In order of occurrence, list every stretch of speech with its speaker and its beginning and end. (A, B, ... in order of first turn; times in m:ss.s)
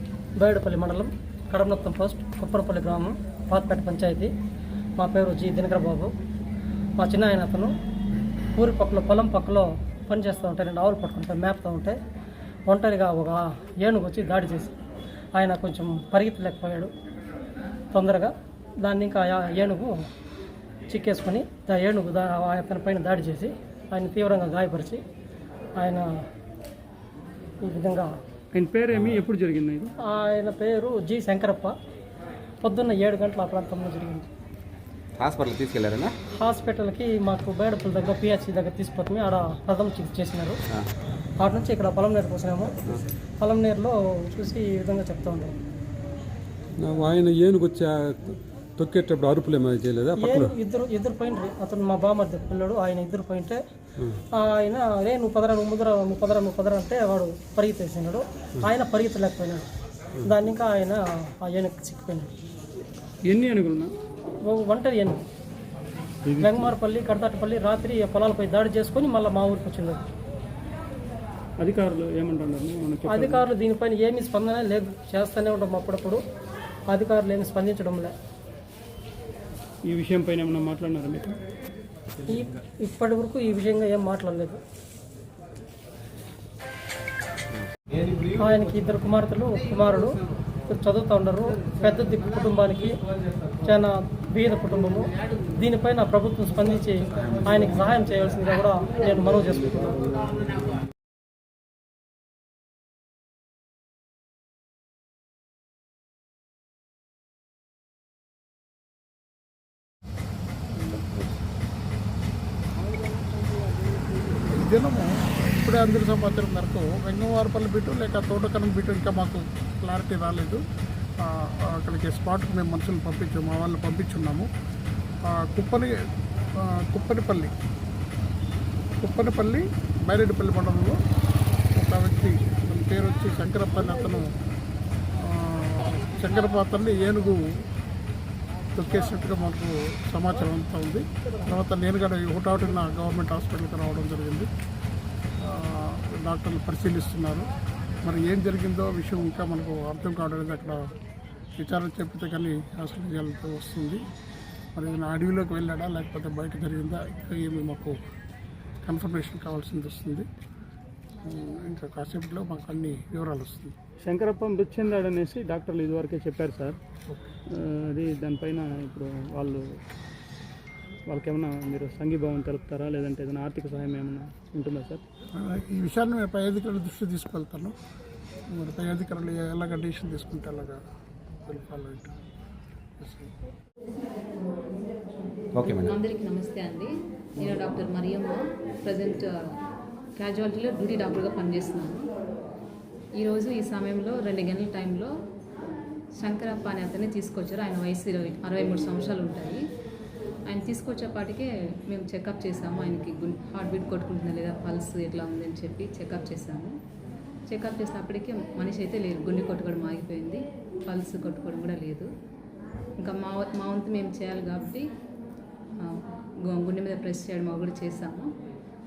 0:00.4-0:04.3 A
0:05.0-0:06.1 A
0:07.0-0:07.7 A
0:08.6-0:12.0 A
0:12.7-0:14.7 A
0:15.4-0:16.9 A
0:17.9-0:19.9 A
0:20.9-0:25.0 A
0:25.8-0:26.1 A
0:27.6-0:28.1 A
0:28.6-0:29.9 B
0:30.0-0:31.7 A
0:32.6-0:34.3 A
0:35.2-0:36.2 C
0:36.4-0:40.6 A
0:41.4-0:45.5 A
0:46.8-0:50.4 D
0:50.2-0:53.6 A
0:54.3-0:59.6 A
1:00.2-1:02.3 A
1:03.3-1:03.9 B
1:04.4-1:05.2 A
1:06.4-1:10.0 A
1:11.6-1:13.4 B
1:13.1-1:16.2 A
1:16.9-1:18.1 A
1:19.9-1:21.3 B
1:22.3-1:24.6 A
1:28.3-1:30.2 A
1:30.7-1:33.0 A
1:33.6-1:40.1 A
1:50.9-1:51.2 C
1:54.4-2:00.6 E
2:01.2-2:04.5 E
2:05.2-2:05.9 E
2:06.6-2:07.5 E
2:09.0-2:11.0 E
2:11.8-2:14.3 E
2:15.2-2:17.4 E
2:18.8-2:24.5 E
2:25.4-2:27.5 E
2:28.0-2:30.8 E
2:31.6-2:34.0 E
2:34.8-2:38.0 E
2:38.8-2:40.3 E
2:41.2-2:43.7 E
2:44.0-2:46.8 B
2:47.5-2:49.6 B
2:51.1-2:55.0 B
2:55.4-2:57.8 E
2:58.5-3:00.8 E
3:01.4-3:02.2 E
3:03.0-3:03.3 E
3:05.5-3:06.0 C
3:05.6-3:09.6 F
3:10.2-3:12.1 F
3:13.2-3:15.1 F
3:16.2-3:19.6 F
3:20.5-3:26.8 F
3:27.5-3:32.1 F
3:33.0-3:34.9 F
3:35.8-3:38.3 F